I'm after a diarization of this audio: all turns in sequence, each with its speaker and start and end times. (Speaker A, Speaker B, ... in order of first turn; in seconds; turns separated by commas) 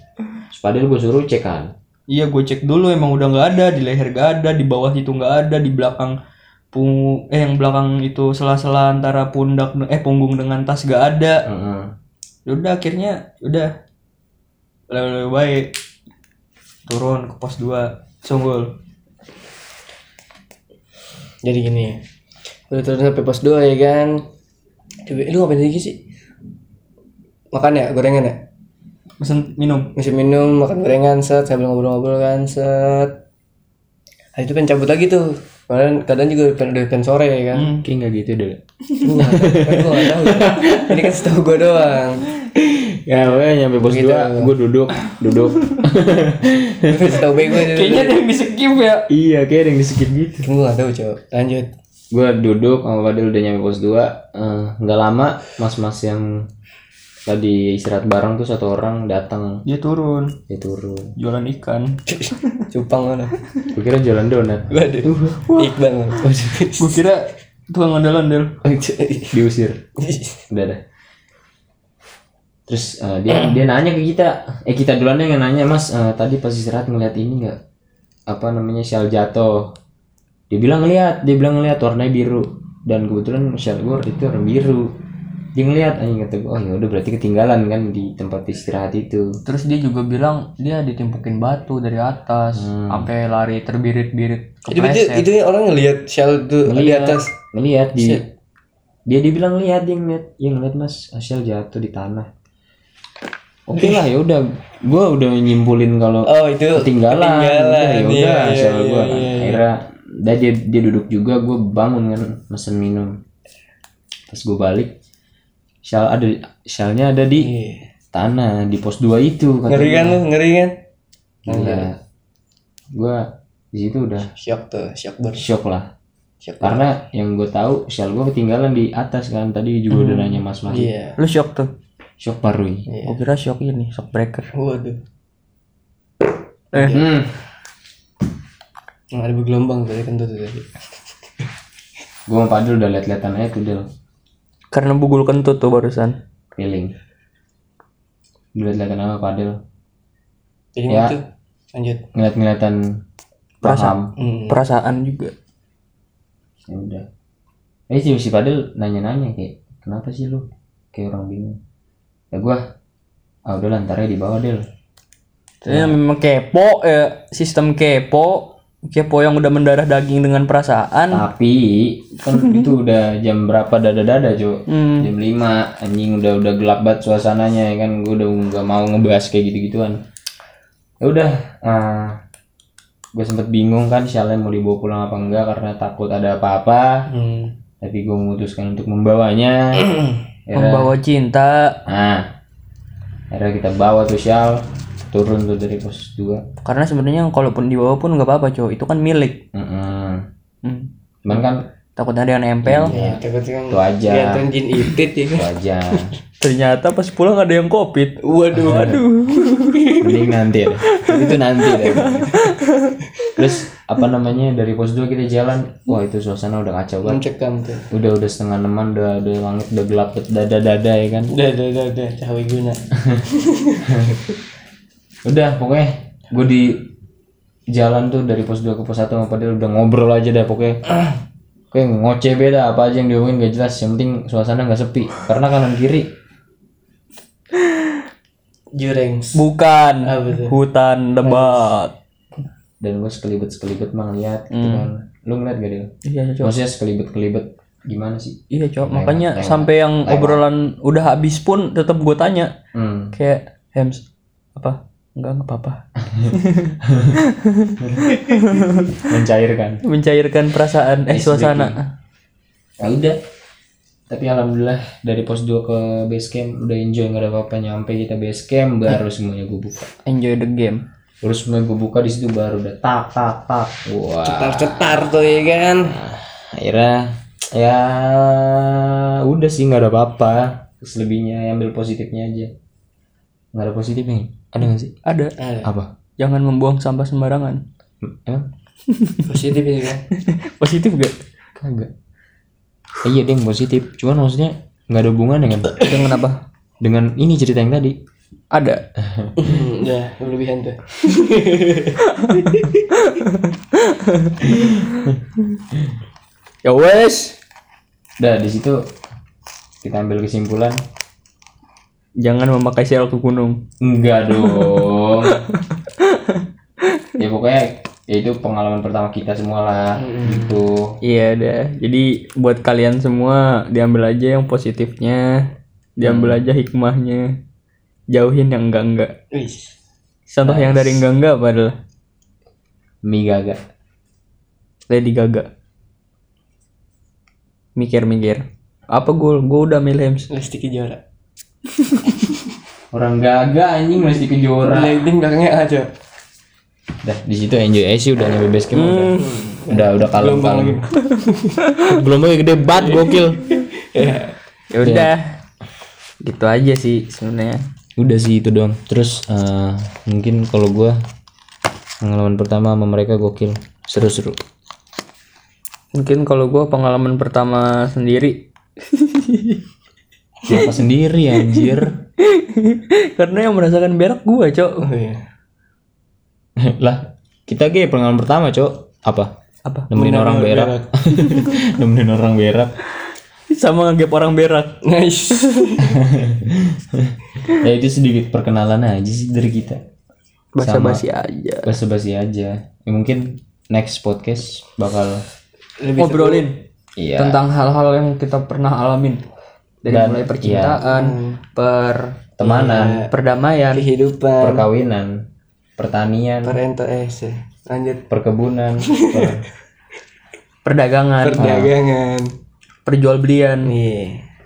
Speaker A: 0.5-1.7, Speaker B: 2.1-6.2, Speaker B: 6.7-11.5, Speaker A: 11.5-11.9, Speaker B: 12.5-13.7, Speaker B: 14.9-15.7, Speaker B: 16.9-18.8, Speaker C: 21.4-22.0, Speaker C: 22.7-24.2, Speaker C: 25.1-26.0, Speaker C: 27.5-28.4, Speaker B: 29.2-29.9, Speaker C: 30.0-33.2, Speaker C: 34.4-37.7, Speaker B: 37.5-37.9, Speaker A: 37.8-38.6, Speaker C: 39.0-42.3, Speaker A: 39.2-40.8, Speaker A: 42.6-47.2, Speaker C: 43.9-44.5, Speaker B: 45.5-45.8, Speaker C: 46.9-48.2, Speaker B: 47.5-49.1, Speaker A: 49.1-50.5, Speaker C: 50.4-51.7, Speaker A: 52.1-56.5, Speaker A: 57.3-59.6, Speaker B: 59.6-60.4, Speaker A: 60.5-61.1, Speaker B: 61.2-62.5, Speaker C: 62.1-63.3, Speaker A: 63.7-66.7, Speaker C: 64.7-67.0, Speaker B: 66.8-68.6, Speaker C: 68.7-69.4, Speaker A: 69.3-69.8, Speaker C: 70.0-70.4, Speaker A: 70.5-70.8, Speaker A: 72.7-77.6, Speaker A: 78.3-79.8, Speaker A: 80.5-85.0, Speaker A: 85.5-89.4, Speaker B: 89.5-95.3, Speaker A: 92.5-93.1, Speaker C: 94.7-97.3, Speaker A: 96.7-98.2, Speaker C: 98.0-98.2, Speaker A: 99.1-102.3, Speaker A: 103.7-113.2, Speaker C: 103.8-104.0, Speaker C: 106.2-109.6, Speaker A: 114.3-114.9, Speaker A: 115.8-117.5, Speaker C: 117.4-117.9, Speaker A: 118.1-120.2, Speaker C: 119.7-120.8, Speaker A: 121.5-122.0, Speaker C: 121.5-121.9, Speaker A: 122.9-124.3, Speaker C: 124.3-125.5, Speaker A: 125.3-125.9, Speaker C: 126.4-126.8, Speaker A: 126.6-130.9, Speaker C: 129.9-131.2, Speaker B: 131.2-131.7, Speaker A: 132.2-132.9, Speaker C: 132.9-133.2, Speaker B: 133.0-134.5, Speaker C: 134.5-135.0, Speaker C: 136.7-137.1, Speaker B: 136.7-137.0, Speaker A: 136.8-137.3, Speaker C: 139.1-140.8, Speaker A: 142.3-143.9, Speaker B: 144.7-146.2, Speaker A: 146.5-146.9, Speaker A: 148.6-149.6, Speaker C: 150.8-151.2, Speaker A: 150.9-151.2, Speaker C: 151.7-152.1, Speaker A: 152.2-153.0, Speaker A: 153.6-154.1, Speaker B: 153.6-154.0, Speaker C: 154.2-154.6, Speaker B: 154.5-155.3, Speaker A: 156.7-157.1, Speaker A: 157.9-161.6, Speaker A: 162.3-162.6, Speaker A: 163.5-164.7, Speaker B: 165.6-171.3, Speaker A: 165.7-166.0, Speaker A: 171.1-180.0, Speaker B: 172.4-172.6, Speaker B: 174.7-175.1, Speaker A: 181.0-182.2, Speaker A: 183.2-187.1, Speaker C: 187.1-187.5, Speaker A: 187.8-190.9, Speaker B: 190.5-191.8, Speaker A: 191.9-192.3, Speaker A: 193.3-196.4, Speaker B: 196.6-199.4, Speaker A: 199.5-200.3, Speaker B: 200.6-203.0, Speaker A: 201.2-201.7, Speaker A: 202.7-204.5, Speaker C: 202.9-206.1, Speaker A: 205.3-206.1, Speaker B: 206.4-210.0, Speaker C: 208.2-209.0, Speaker A: 208.5-209.1, Speaker C: 209.5-210.1, Speaker A: 210.0-212.5, Speaker B: 210.8-213.3, Speaker A: 213.4-217.2, Speaker C: 217.0-217.9, Speaker A: 217.9-221.3, Speaker C: 221.3-224.1, Speaker A: 223.0-223.2, Speaker A: 223.8-224.2, Speaker A: 225.2-226.9, Speaker A: 227.7-230.8, Speaker A: 231.7-236.1, Speaker B: 237.6-238.0, Speaker C: 238.7-239.4, Speaker B: 239.3-241.9, Speaker C: 240.1-240.6, Speaker C: 241.2-241.6, Speaker A: 242.8-250.4, Speaker B: 244.5-244.9, Speaker B: 246.1-246.6, Speaker B: 248.5-252.5, Speaker A: 252.7-253.1, Speaker B: 253.1-254.0, Speaker B: 254.6-259.1, Speaker A: 256.1-257.2, Speaker A: 257.8-258.2, Speaker A: 259.0-259.8, Speaker B: 259.8-261.9, Speaker A: 261.1-261.8, Speaker A: 262.8-263.2, Speaker A: 264.1-269.9, Speaker B: 270.1-270.8, Speaker A: 271.2-282.5, Speaker C: 274.2-276.0, Speaker A: 283.5-284.9, Speaker B: 285.1-285.4, Speaker C: 285.4-285.7, Speaker A: 285.6-285.9, Speaker B: 286.2-287.6, Speaker A: 288.0-288.5, Speaker B: 288.9-289.3, Speaker C: 289.3-290.0, Speaker B: 290.1-291.2, Speaker A: 291.6-291.9, Speaker A: 293.0-295.9, Speaker B: 295.8-296.4, Speaker A: 296.8-298.0, Speaker B: 298.5-298.8, Speaker A: 299.0-299.6, Speaker C: 299.4-302.8, Speaker B: 302.0-305.1, Speaker A: 304.4-305.2, Speaker B: 306.6-307.4, Speaker A: 308.2-308.8, Speaker A: 309.8-310.8, Speaker B: 312.2-313.6, Speaker A: 313.8-315.4, Speaker B: 314.4-316.4, Speaker A: 317.2-321.0, Speaker C: 320.0-320.6, Speaker B: 321.0-327.4, Speaker A: 326.0-326.4, Speaker B: 328.1-329.1, Speaker C: 329.3-329.7, Speaker B: 330.3-331.8, Speaker A: 330.4-331.0, Speaker A: 333.0-333.6, Speaker B: 334.9-335.5, Speaker B: 337.8-340.3, Speaker C: 340.3-341.0, Speaker A: 342.9-345.1, Speaker C: 344.6-345.9, Speaker A: 347.0-350.8, Speaker B: 348.7-349.5, Speaker C: 349.2-351.6, Speaker B: 351.1-351.9, Speaker A: 351.9-353.5, Speaker C: 353.0-354.3, Speaker B: 354.7-355.4, Speaker A: 354.8-355.1, Speaker B: 356.2-357.6, Speaker A: 358.0-361.0, Speaker A: 362.0-364.4, Speaker B: 365.9-369.6, Speaker A: 370.5-372.0, Speaker B: 371.4-374.9, Speaker C: 374.8-375.2, Speaker A: 376.6-379.3, Speaker A: 379.9-382.8, Speaker C: 379.9-380.9, Speaker B: 381.2-381.5, Speaker B: 383.5-384.8, Speaker C: 384.8-386.0, Speaker B: 385.4-385.7, Speaker A: 385.9-389.8, Speaker B: 390.6-391.8, Speaker A: 390.6-391.1, Speaker A: 391.6-395.2, Speaker C: 395.8-396.5, Speaker B: 396.0-396.6, Speaker A: 397.0-397.4, Speaker B: 397.2-399.2, Speaker B: 399.8-402.2, Speaker A: 399.9-400.8, Speaker C: 400.9-401.4, Speaker A: 402.4-403.1, Speaker C: 402.4-403.1, Speaker B: 403.1-403.9, Speaker C: 403.7-404.7, Speaker A: 404.4-405.3, Speaker A: 405.8-406.6, Speaker C: 406.4-408.1, Speaker A: 408.1-409.5, Speaker C: 408.9-409.4, Speaker B: 410.6-411.7, Speaker C: 411.2-412.3, Speaker A: 411.4-411.7, Speaker B: 412.9-413.7, Speaker C: 413.6-414.3